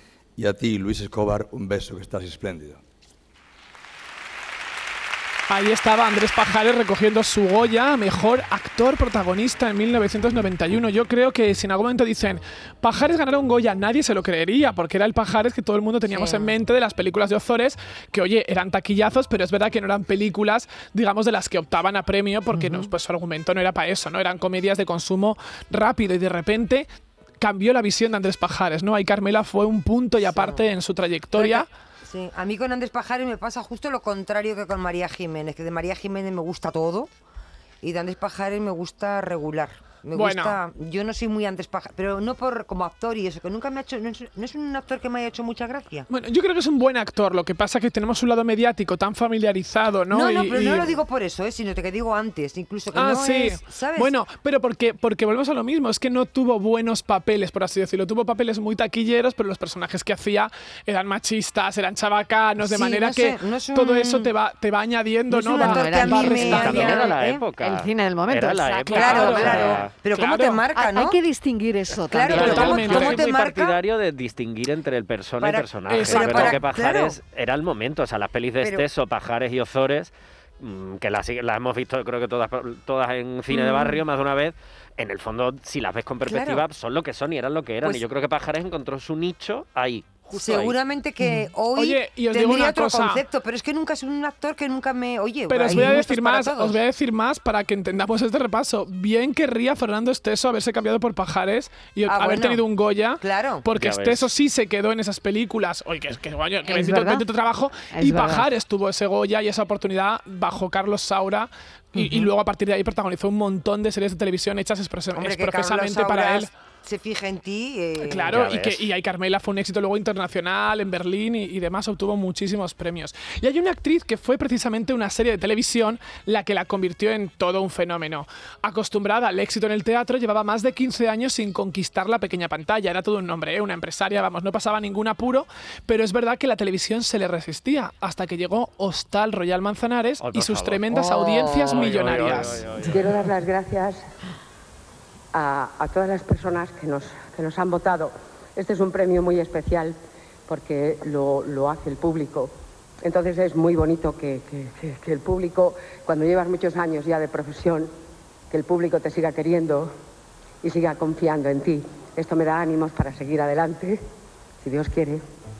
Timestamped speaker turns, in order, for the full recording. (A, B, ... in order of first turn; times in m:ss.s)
0:00.4-0:02.8 A
0:05.5-0:26.9 B
0:16.1-0:16.4 C
0:22.5-0:22.9 D
0:27.4-0:31.7 B
0:30.3-0:30.6 C
0:31.4-0:37.1 C
0:37.8-0:46.1 C
0:40.1-0:40.6 B
0:46.1-0:51.0 B
0:50.1-0:54.1 C
0:52.9-1:07.0 B
1:02.6-1:04.3 C
1:05.3-1:07.4 C
1:05.5-1:09.8 D
1:06.4-1:09.9 E
1:08.9-1:10.6 B
1:08.9-1:11.2 C
1:10.8-1:13.0 D
1:12.1-1:13.8 C
1:12.3-1:30.7 E
1:12.3-1:13.2 B
1:15.4-1:17.2 C
1:15.9-1:16.6 B
1:23.5-1:24.0 C
1:26.2-1:26.6 C
1:30.4-1:36.8 C
1:31.2-1:33.2 B
1:35.5-1:56.5 B
1:42.1-1:42.6 C
1:43.2-1:43.6 C
1:43.7-1:44.3 E
1:46.7-1:47.3 D
1:47.9-1:48.5 D
1:51.9-1:52.3 D
1:55.1-1:58.3 C
1:58.0-2:22.7 B
1:58.2-1:58.8 E
2:20.2-2:20.8 E
2:21.2-2:21.7 F
2:21.7-2:23.0 E
2:22.8-2:24.0 F
2:25.3-2:30.0 F
2:30.5-2:32.5 F
2:33.0-2:37.9 F
2:38.5-2:39.9 F
2:40.6-2:44.0 F
2:44.6-2:45.2 F